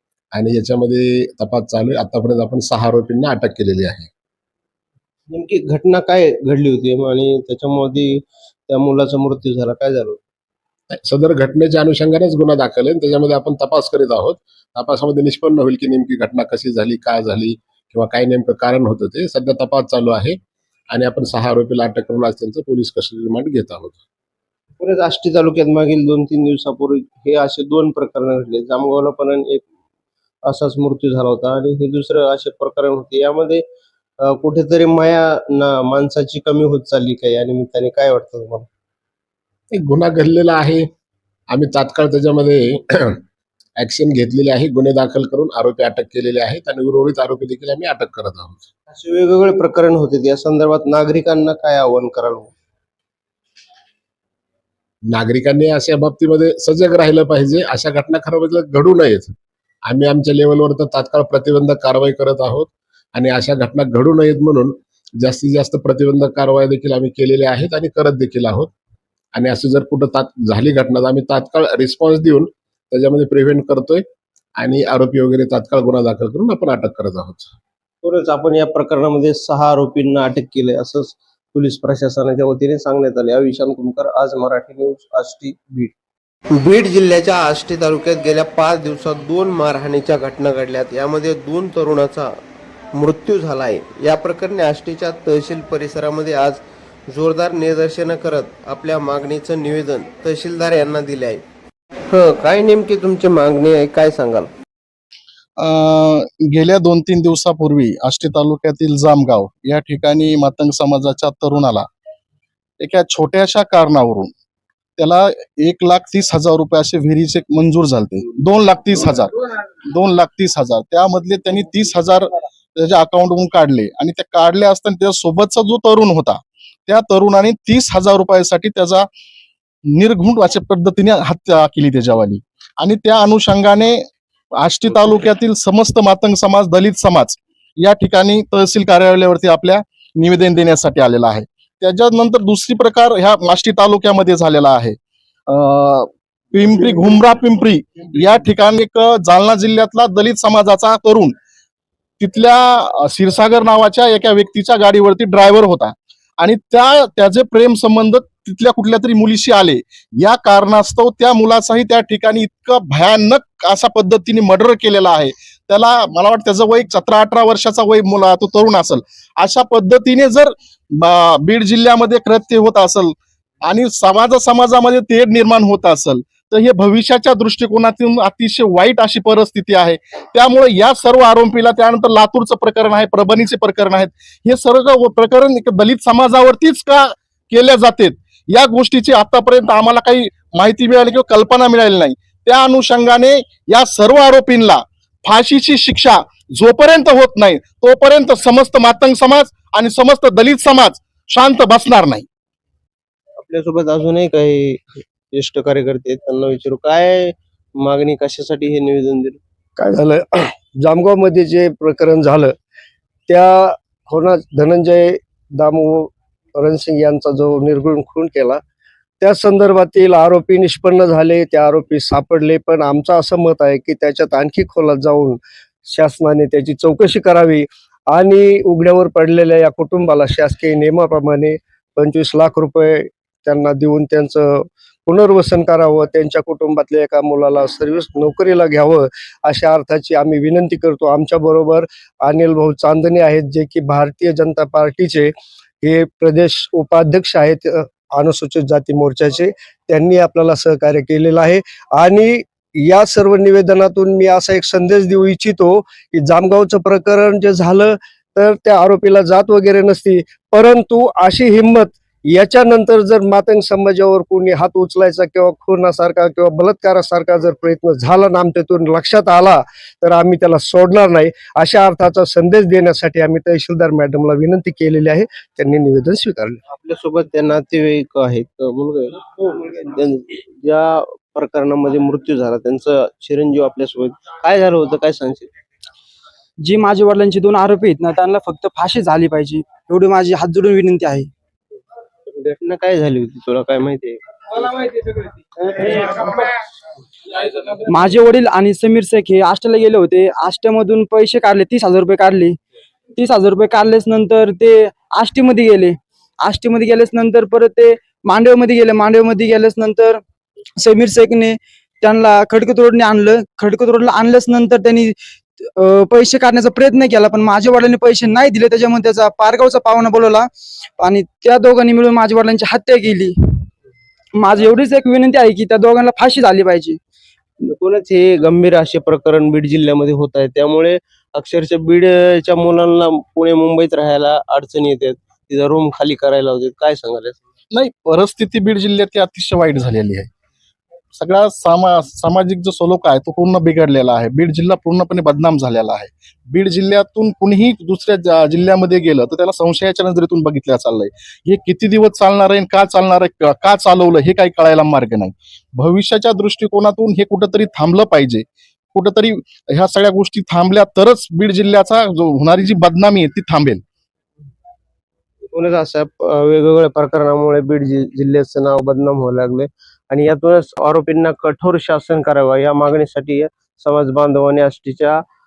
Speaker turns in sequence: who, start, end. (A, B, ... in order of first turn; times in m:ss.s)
0:00.3-0:04.1 A
0:05.3-0:10.2 B
0:10.9-0:20.4 A
0:20.9-0:24.0 A
0:24.8-0:29.6 B
0:30.4-0:33.6 B
0:34.2-0:38.7 B
0:39.7-0:40.8 A
0:41.5-0:43.2 A
0:43.8-0:48.7 A
0:48.9-0:52.5 B
0:55.1-0:59.3 A
0:59.8-1:08.7 A
1:09.3-1:14.0 A
1:14.6-1:17.5 A
1:18.0-1:25.9 B
1:26.6-1:32.3 B
1:33.0-1:36.6 B
1:37.1-1:41.4 B
1:42.1-1:44.5 B
1:45.6-1:51.9 C
1:52.8-1:54.3 C
1:55.0-1:59.3 C
1:59.9-2:09.1 C
2:09.9-2:14.0 C
2:14.6-2:25.0 C
2:25.5-2:31.3 C
2:32.2-3:22.2 C
3:23.4-3:29.4 B
3:29.8-3:32.5 D
3:33.3-3:38.6 D
3:39.2-4:05.3 D
4:05.8-4:36.6 D
4:36.7-4:45.5 B
4:46.6-4:51.3 E
4:52.3-4:54.9 B
4:55.8-4:56.3 B
4:57.8-5:02.6 E
5:03.2-5:10.2 E
5:10.8-5:20.5 E
5:21.0-5:23.3 E
5:24.4-5:27.0 E
5:27.7-5:37.5 B
5:37.7-5:40.3 C
5:41.2-6:03.8 C
6:05.5-6:15.2 B